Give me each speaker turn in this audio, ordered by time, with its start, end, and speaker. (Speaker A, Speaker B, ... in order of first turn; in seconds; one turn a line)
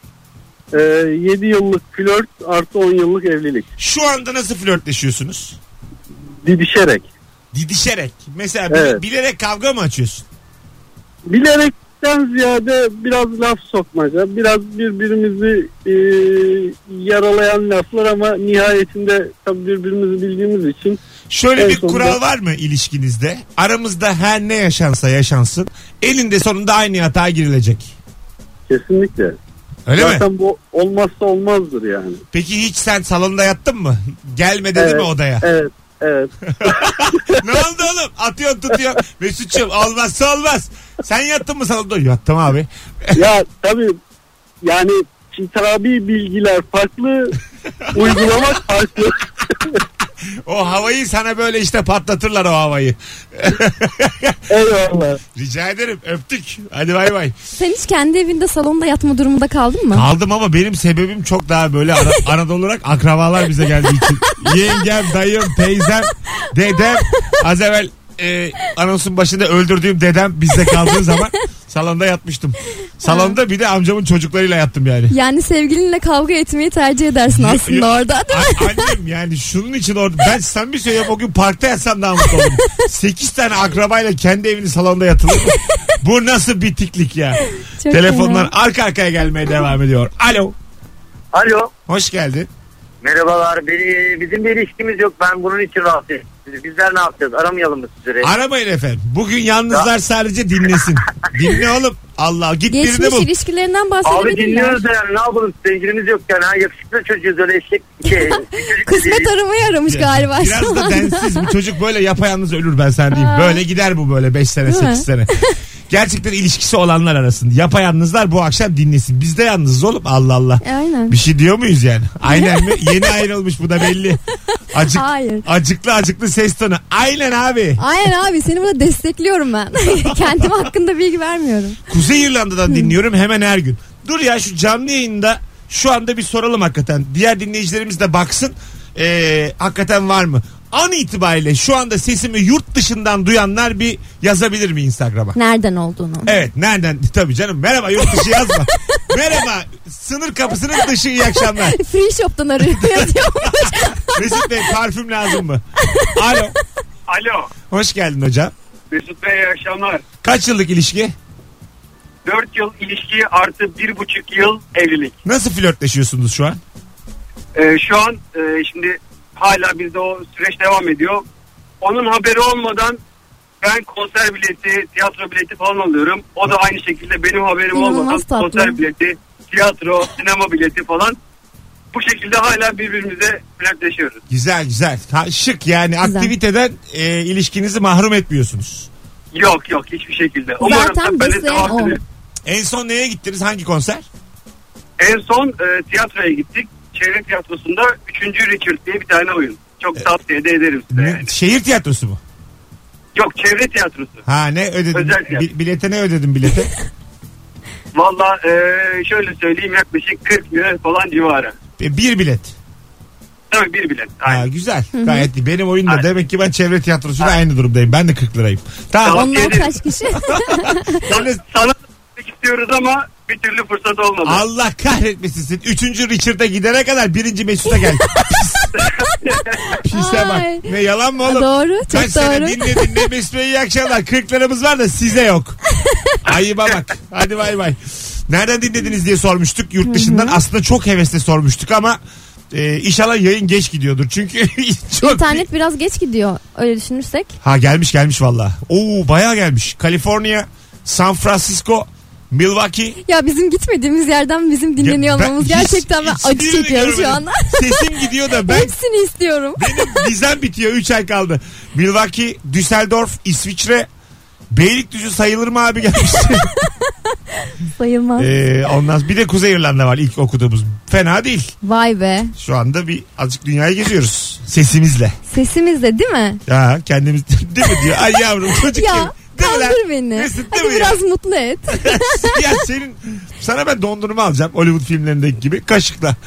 Speaker A: 0.7-3.7
Speaker B: 3.8-5.6
Speaker A: 6.4-7.1
Speaker B: 7.5-10.2
Speaker A: 8.7-9.0
Speaker A: 11.3-21.0
Speaker B: 21.3-27.9
Speaker A: 21.6-22.2
Speaker A: 28.7-29.4
Speaker B: 29.9-30.2
Speaker A: 30.0-32.2
Speaker B: 32.3-35.5
Speaker A: 34.7-37.4
Speaker B: 36.4-43.2
Speaker A: 43.1-44.0
Speaker A: 44.6-47.4
Speaker A: 47.9-49.2
Speaker B: 50.4-54.4
Speaker A: 54.5-55.2
Speaker B: 55.3-57.4
Speaker C: 57.6-60.0
Speaker B: 59.9-75.1
Speaker C: 63.8-64.5
Speaker C: 66.8-67.3
Speaker C: 70.6-71.2
Speaker C: 73.0-73.4
Speaker C: 75.1-78.9
Speaker B: 77.3-90.5
Speaker C: 87.8-88.5
Speaker D: 91.3-91.7
Speaker B: 91.9-92.5
Speaker D: 93.0-98.3
Speaker B: 98.2-103.3
Speaker C: 102.7-104.8
Speaker D: 104.0-109.3
Speaker C: 108.0-111.5
Speaker B: 109.9-115.3
Speaker C: 113.1-113.6
Speaker C: 114.7-115.5
Speaker B: 115.9-124.2
Speaker C: 120.6-121.2
Speaker C: 122.2-123.1
Speaker B: 124.7-127.8
Speaker C: 124.8-125.5
Speaker C: 127.8-131.8
Speaker B: 129.9-130.5
Speaker B: 131.9-145.4
Speaker C: 132.7-132.9
Speaker C: 145.3-146.4
Speaker B: 146.2-151.8
Speaker C: 151.4-154.6
Speaker B: 152.7-156.5
Speaker E: 157.1-157.5
Speaker B: 157.7-158.5
Speaker E: 158.9-160.0
Speaker B: 160.2-161.1
Speaker E: 162.2-165.1
Speaker B: 165.2-166.6
Speaker E: 167.5-171.2
Speaker E: 171.8-173.0
Speaker E: 173.6-181.2
Speaker C: 177.7-178.8
Speaker E: 181.9-184.2
Speaker B: 184.3-188.9
Speaker C: 186.0-186.3
Speaker E: 189.3-192.0
Speaker C: 190.6-192.0
Speaker B: 192.4-194.1
Speaker E: 195.0-201.3
Speaker B: 200.9-202.2
Speaker E: 203.1-204.2
Speaker B: 204.2-206.7
Speaker E: 204.9-205.4
Speaker E: 207.9-211.5
Speaker B: 211.8-212.5
Speaker E: 213.5-214.4
Speaker B: 214.2-219.6
Speaker C: 214.9-215.3
Speaker E: 219.0-219.8
Speaker C: 219.1-221.0
Speaker B: 220.3-221.4
Speaker E: 221.1-224.4
Speaker B: 224.2-228.7
Speaker C: 227.8-228.2
Speaker E: 228.7-229.6
Speaker B: 229.8-235.6
Speaker C: 229.9-230.7
Speaker C: 231.2-232.9
Speaker B: 236.2-242.0
Speaker C: 239.8-240.4
Speaker B: 242.5-245.4
Speaker C: 245.0-247.3
Speaker B: 247.4-253.0
Speaker C: 253.0-257.8
Speaker B: 254.8-258.7
Speaker C: 258.4-260.1
Speaker B: 259.6-263.9
Speaker B: 264.5-266.5
Speaker C: 267.3-268.3
Speaker B: 268.2-271.5
Speaker C: 271.6-272.3
Speaker B: 272.3-275.1
Speaker C: 275.3-276.4
Speaker B: 276.5-281.0
Speaker C: 278.7-282.4
Speaker B: 281.7-286.2